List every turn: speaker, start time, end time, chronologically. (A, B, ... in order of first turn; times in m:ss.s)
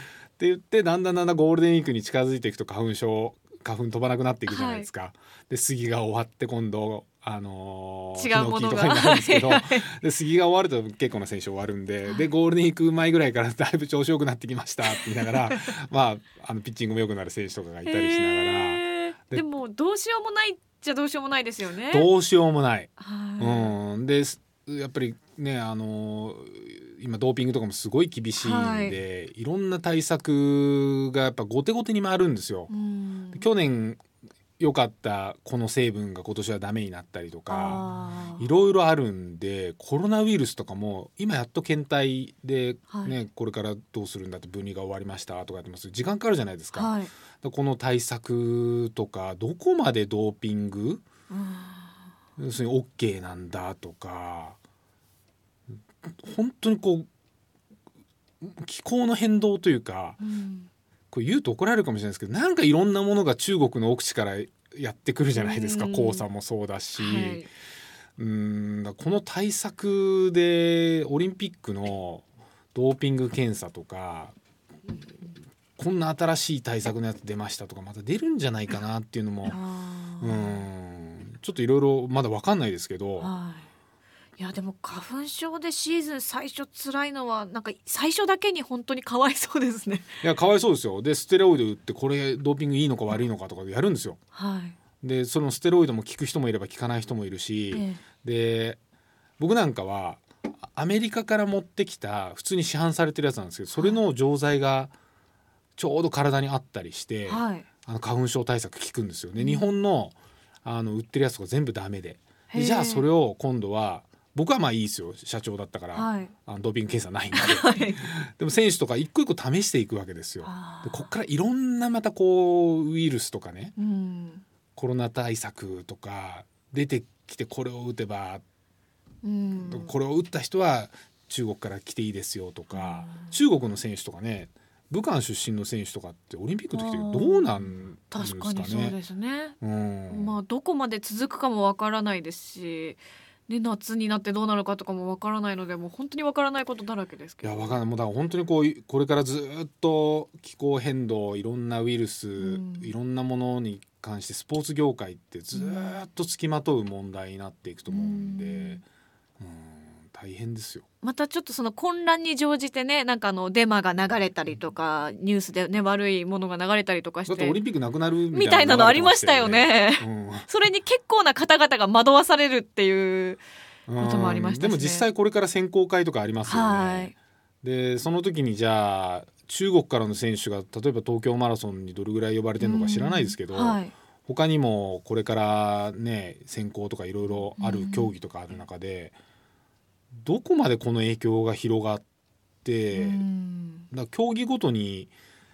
0:00.4-0:19.4 A
0:04.5-0:04.9 B
0:08.2-0:09.8 B
0:15.0-0:15.6 B
0:17.8-0:22.1 B
0:21.9-0:32.7 A
0:23.0-0:23.7 B
0:28.4-0:29.0 B
0:32.7-0:33.4 B
0:33.3-0:34.0 A
0:34.6-0:37.8 A
0:37.5-0:38.4 B
0:38.4-0:51.0 A
0:46.7-0:47.1 B
0:51.3-0:52.0 B
0:52.4-0:54.6 A
0:56.0-0:57.1 A
0:58.4-1:00.2 A
1:00.2-1:00.7 B
1:01.1-1:07.4 A
1:05.3-1:06.2 B
1:07.0-1:07.5 B
1:08.2-1:14.3 A
1:15.8-1:19.6 A
1:19.5-1:20.6 B
1:20.2-1:23.3 A
1:23.2-1:23.7 B
1:24.4-1:30.1 B
1:30.2-1:34.2 A
1:34.3-1:34.8 B
1:35.0-1:38.8 A
1:37.7-1:38.0 B
1:39.4-1:44.9 A
1:45.8-2:03.7 A
1:47.3-1:47.6 B
1:49.4-1:49.7 B
1:52.5-1:53.0 B
1:55.9-1:56.3 B
1:57.3-1:58.1 B
2:00.4-2:01.1 B
2:03.8-2:04.4 B
2:04.8-2:08.4 A
2:09.2-2:09.9 B
2:09.6-2:19.0 A
2:12.7-2:13.3 B
2:16.7-2:19.6 B
2:19.6-2:20.3 A
2:20.1-2:27.8 B
2:27.4-2:38.8 A
2:32.4-2:32.9 B
2:35.5-2:36.0 B
2:37.9-2:38.8 B
2:39.4-2:40.8 A
2:41.0-2:47.6 B
2:47.3-2:50.5 A
2:48.3-2:53.4 B
2:53.9-3:09.1 A
2:54.0-2:55.0 B
2:56.4-2:57.1 B
3:02.6-3:03.9 B
3:07.6-3:08.1 B
3:10.2-3:12.0 A
3:12.6-3:13.2 A
3:12.9-3:13.9 B
3:13.9-3:15.1 A